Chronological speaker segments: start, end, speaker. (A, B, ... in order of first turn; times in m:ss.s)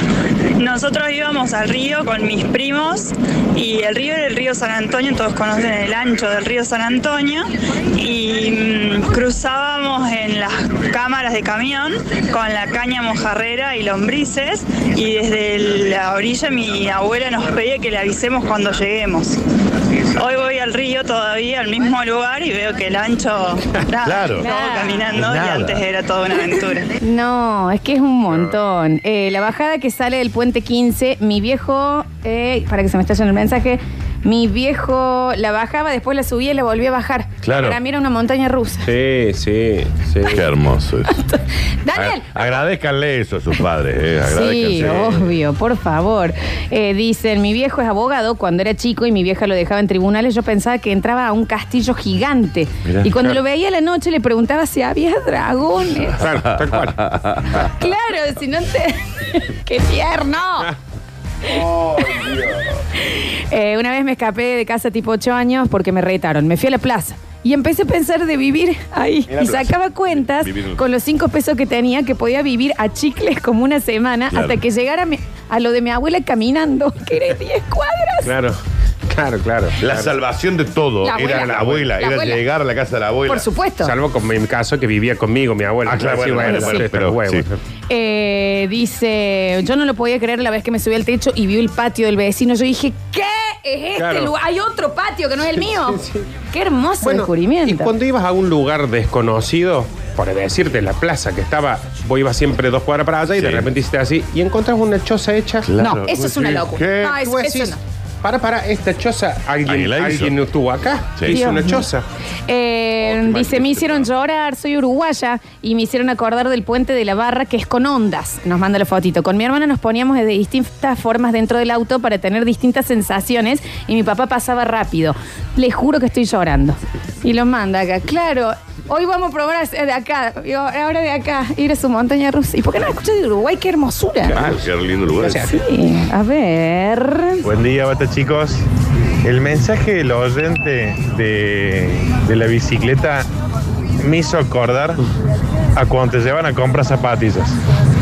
0:00.6-0:19.4 A
0:20.1-0:26.9 A
0:24.0-0:24.5 B
0:24.4-0:25.0 C
0:25.1-0:25.8 B
0:27.0-0:38.9 C
0:37.4-0:37.8 B
0:38.8-0:40.4 D
0:40.2-0:41.2 B
0:41.2-0:42.6 C
0:41.9-0:45.2 B
0:44.3-0:56.2 C
0:44.8-0:45.1 D
0:52.8-0:53.1 B
0:56.2-0:57.1 D
0:56.4-0:57.7 B
0:57.6-1:00.7 C
1:01.4-1:02.8 B
1:01.5-1:02.2 C
1:03.0-1:18.3 C
1:09.3-1:10.8 B
1:14.3-1:14.6 B
1:18.2-1:20.2 D
1:19.8-1:23.5 B
1:21.0-1:22.4 C
1:21.1-1:21.9 D
1:23.3-1:23.9 C
1:23.8-1:27.6 D
1:25.8-1:27.5 B
1:26.5-1:26.9 C
1:27.9-1:36.0 C
1:34.0-1:34.3 D
1:35.6-1:36.3 D
1:36.5-1:37.9 C
1:37.0-1:45.7 D
1:43.3-1:43.7 B
1:45.6-1:47.2 B
1:45.8-1:47.8 C
1:47.2-1:52.0 D
1:49.7-1:50.4 B
1:51.2-1:51.4 B
1:51.3-1:51.9 C
1:52.5-2:14.4 C
1:53.0-1:54.1 B
2:14.3-2:15.5 B
2:15.2-2:15.6 D
2:15.5-2:17.4 C
2:17.4-2:18.6 E
2:19.2-2:23.3 E
2:24.0-2:25.0 E
2:25.8-2:27.6 E